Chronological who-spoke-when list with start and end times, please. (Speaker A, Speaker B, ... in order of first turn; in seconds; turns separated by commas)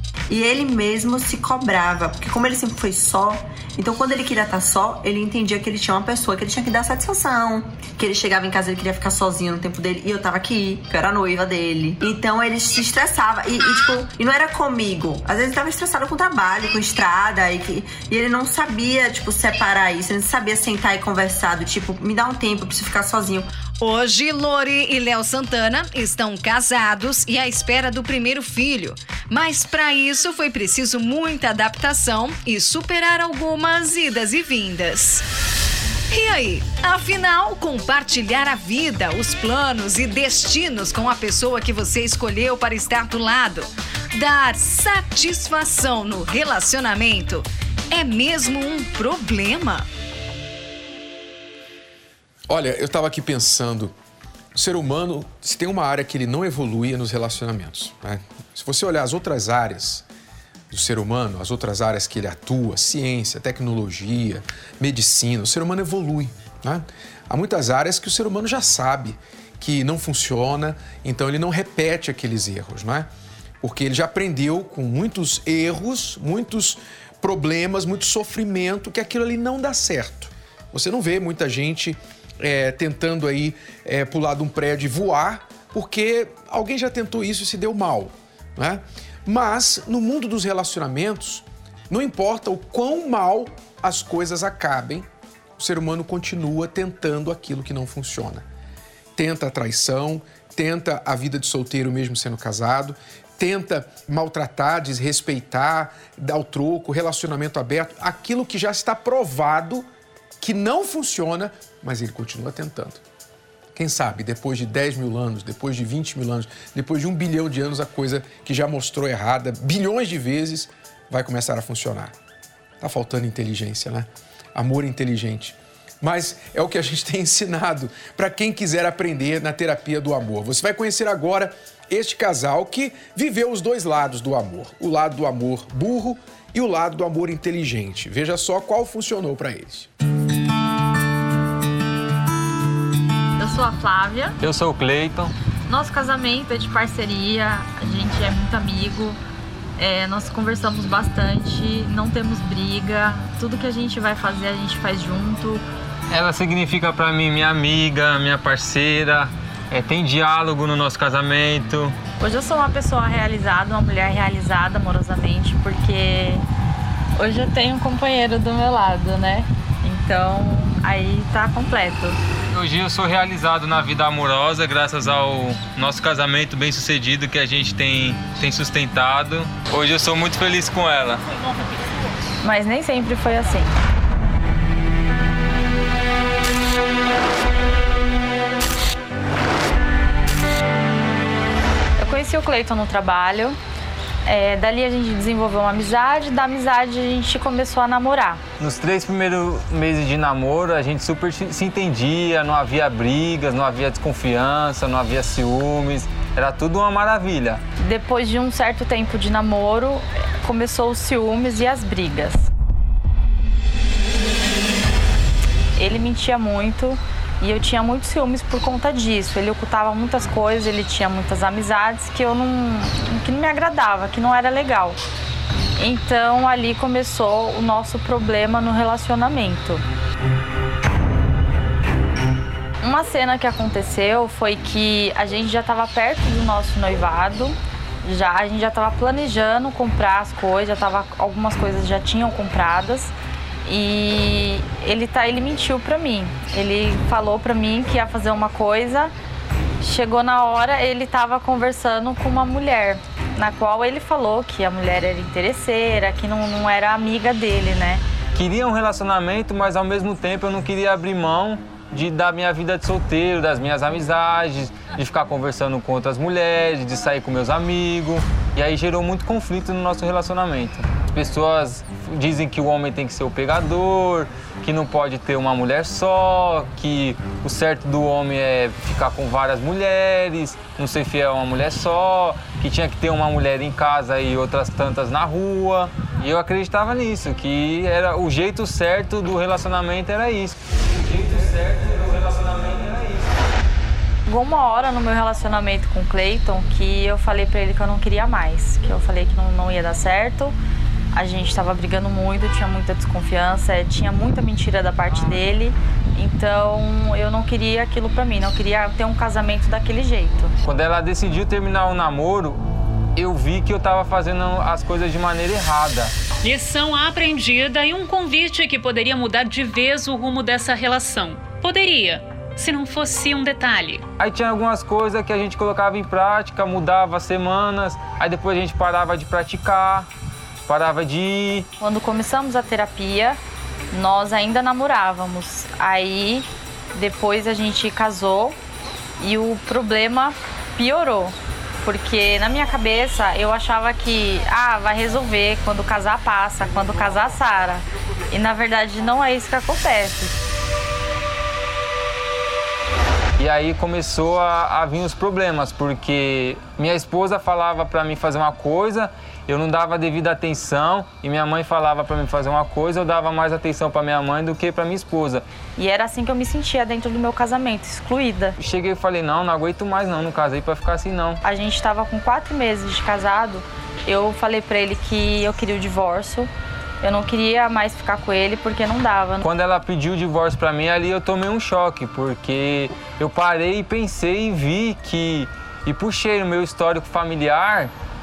Speaker A: 0.3-23.5, Speaker B: 23.8-35.2, Speaker B: 36.1-49.9, Speaker C: 52.5-53.9, Speaker C: 54.5-60.1, Speaker C: 60.7-73.1, Speaker C: 73.6-95.1, Speaker C: 95.6-98.5, Speaker C: 99.2-109.9, Speaker C: 110.4-113.0, Speaker C: 113.7-122.1, Speaker C: 122.8-139.9, Speaker D: 143.4-144.4, Speaker E: 144.4-145.3, Speaker D: 145.7-149.2, Speaker D: 149.8-155.6, Speaker E: 156.1-161.9, Speaker D: 162.2-166.4, Speaker D: 167.2-172.2, Speaker E: 172.5-181.2, Speaker D: 182.4-183.7, Speaker D: 192.0-193.6, Speaker D: 194.2-198.4, Speaker E: 198.6-207.6, Speaker D: 207.8-212.5, Speaker D: 215.8-225.0, Speaker D: 225.8-229.8, Speaker D: 232.8-243.1, Speaker D: 243.6-249.1, Speaker D: 249.8-258.0, Speaker E: 258.3-293.3, Speaker D: 294.3-300.6, Speaker D: 301.1-310.6, Speaker E: 310.6-312.6, Speaker E: 313.2-316.1, Speaker F: 316.4-324.1, Speaker E: 324.2-330.1, Speaker E: 330.7-331.7, Speaker D: 331.8-333.4, Speaker D: 333.9-338.6, Speaker D: 339.2-350.4, Speaker E: 353.4-365.4, Speaker D: 365.8-368.6, Speaker E: 368.6-371.4, Speaker D: 371.4-376.5, Speaker D: 377.0-379.5, Speaker E: 379.4-387.9